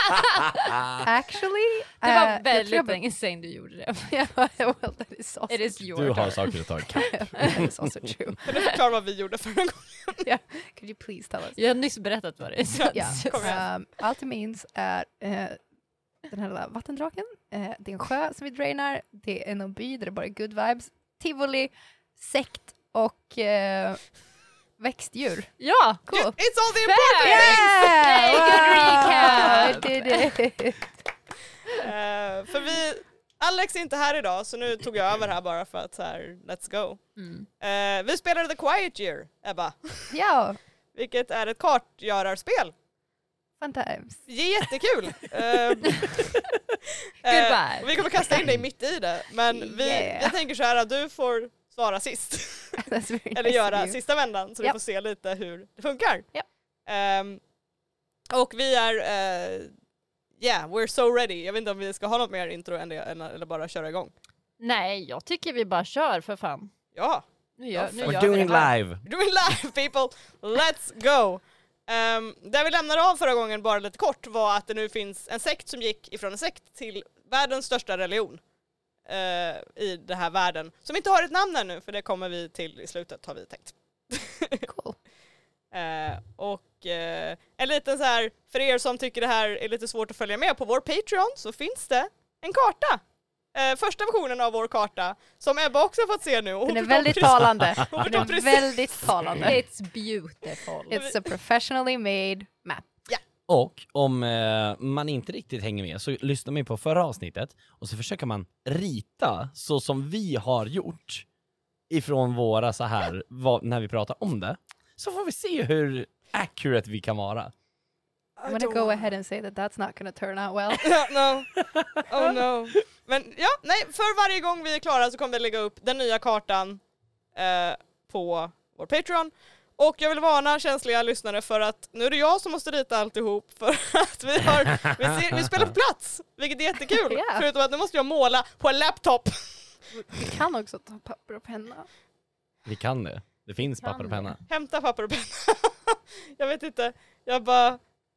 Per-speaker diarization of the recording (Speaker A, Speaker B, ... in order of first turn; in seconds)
Speaker A: 0.6-1.0, 5.9-7.9, 68.0-69.0, 97.2-98.1, 103.5-111.3, 111.9-117.5, 134.9-135.4, 142.7-144.4
Speaker B: 1.0-3.0, 4.1-5.8, 7.0-8.7, 10.2-11.6, 12.9-15.6, 16.3-24.1, 24.8-25.6, 26.1-26.4, 27.2-30.9, 40.1-40.6, 43.6-44.2, 49.5-50.4, 52.8-54.0, 84.7-85.0, 96.7-99.6, 100.9-102.9, 118.5-121.1, 137.1-137.5, 139.9-141.9, 143.8-144.3
Speaker C: 2.0-4.2, 5.5-6.6, 11.6-13.6, 25.6-30.4, 37.2-37.5, 47.2-48.0, 64.6-66.7, 67.6-68.7, 99.4-101.0
Speaker D: 8.4-10.2, 12.7-13.7, 26.1-29.9, 31.7-37.0, 37.6-40.2, 41.0-42.7, 44.3-46.3, 47.2-56.3, 56.9-57.4, 58.3-59.7, 60.4-64.1, 67.0-78.4, 79.0-84.7, 85.7-93.0, 93.5-99.1, 100.9-101.2, 118.4-119.1, 120.8-126.8, 127.3-139.8, 144.4-147.8